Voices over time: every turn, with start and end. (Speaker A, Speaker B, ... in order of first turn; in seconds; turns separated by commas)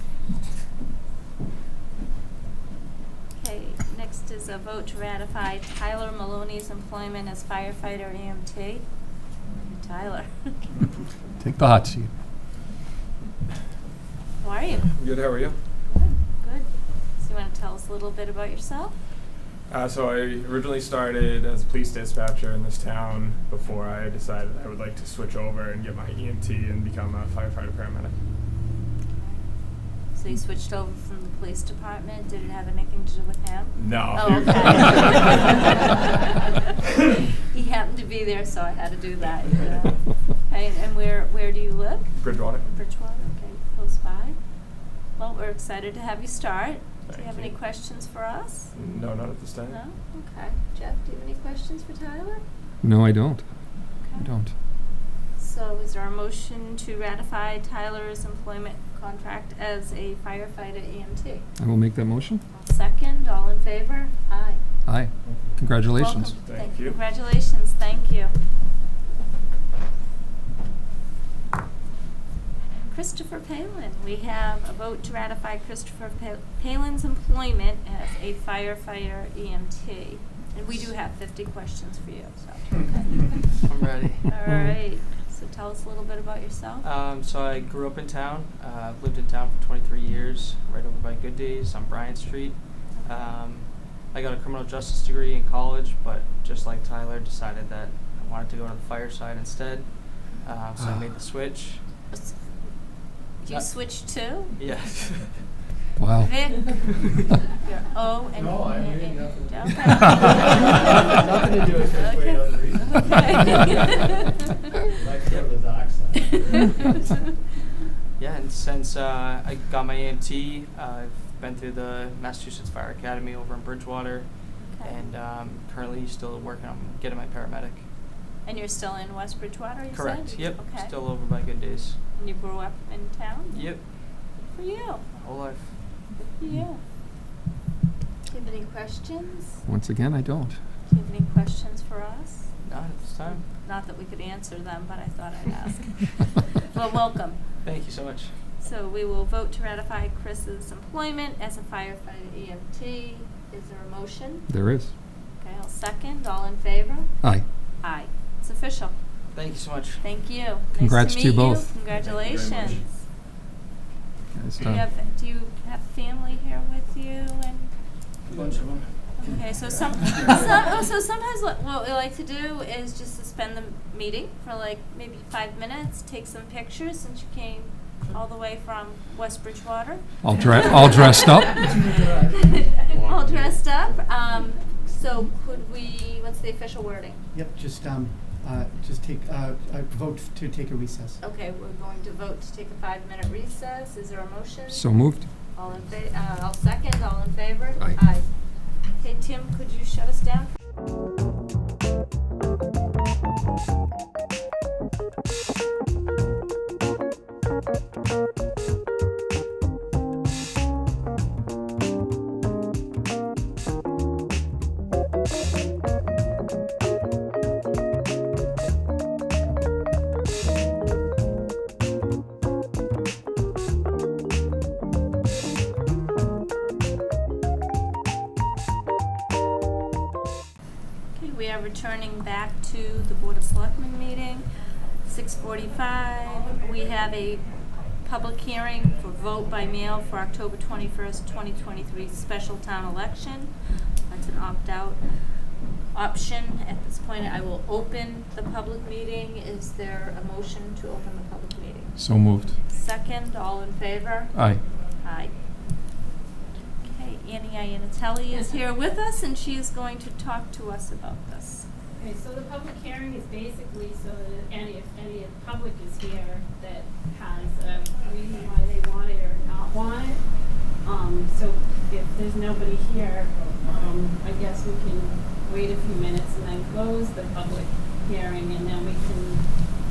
Speaker A: 3.4-8.8, Speaker A: 9.6-10.6, Speaker B: 11.4-12.1, Speaker A: 14.4-14.9, Speaker C: 14.9-15.6, Speaker A: 15.8-18.9, Speaker C: 19.7-28.1, Speaker A: 30.1-36.7, Speaker C: 33.8-35.6, Speaker A: 37.5-44.4, Speaker C: 42.2-42.6, Speaker A: 45.2-48.7, Speaker C: 47.1-47.5, Speaker C: 48.7-49.8, Speaker A: 49.7-52.4, Speaker B: 52.8-54.5, Speaker A: 54.0-54.3, Speaker A: 55.4-61.4, Speaker B: 61.6-62.4, Speaker A: 62.5-64.6, Speaker B: 64.9-66.3, Speaker D: 65.2-65.6, Speaker A: 65.9-68.3, Speaker C: 66.4-67.0, Speaker A: 72.9-83.6, Speaker E: 83.6-84.3, Speaker A: 84.3-86.9, Speaker B: 84.5-84.8, Speaker E: 86.8-101.8, Speaker A: 93.0-93.4, Speaker A: 103.4-104.5, Speaker E: 104.5-105.4, Speaker B: 106.0-106.4, Speaker A: 106.2-106.8, Speaker A: 107.5-111.0, Speaker D: 108.3-113.9, Speaker F: 111.0-112.2, Speaker A: 111.7-114.5, Speaker D: 114.9-117.1, Speaker E: 118.2-127.8, Speaker A: 124.6-125.0, Speaker A: 128.4-130.9, Speaker E: 129.9-132.0, Speaker A: 132.2-133.8, Speaker E: 133.5-133.8, Speaker A: 134.4-135.1, Speaker E: 135.2-135.8, Speaker A: 136.1-136.8, Speaker A: 138.2-139.6, Speaker B: 139.6-140.6, Speaker A: 140.9-142.5, Speaker E: 142.6-143.4, Speaker A: 143.3-147.4, Speaker E: 147.6-148.3, Speaker A: 148.6-154.5, Speaker B: 154.5-154.9, Speaker A: 155.4-157.1, Speaker A: 157.8-158.9, Speaker E: 159.3-160.0, Speaker A: 160.0-162.8, Speaker B: 160.7-161.7, Speaker C: 162.2-162.7, Speaker B: 164.3-164.8, Speaker A: 164.6-167.7, Speaker E: 168.3-168.8, Speaker A: 169.2-187.2, Speaker B: 180.2-181.7, Speaker D: 181.5-183.6, Speaker F: 187.3-191.2, Speaker A: 191.2-194.9, Speaker B: 194.7-195.3, Speaker A: 195.5-198.3, Speaker A: 199.0-200.5, Speaker A: 231.2-234.4, Speaker A: 235.0-237.5, Speaker A: 238.0-243.5, Speaker A: 244.1-245.0, Speaker A: 245.9-252.0, Speaker B: 252.0-252.5, Speaker A: 252.7-254.3, Speaker B: 254.3-254.6, Speaker A: 255.0-255.3, Speaker A: 256.8-261.6, Speaker G: 262.0-270.2, Speaker G: 270.8-279.5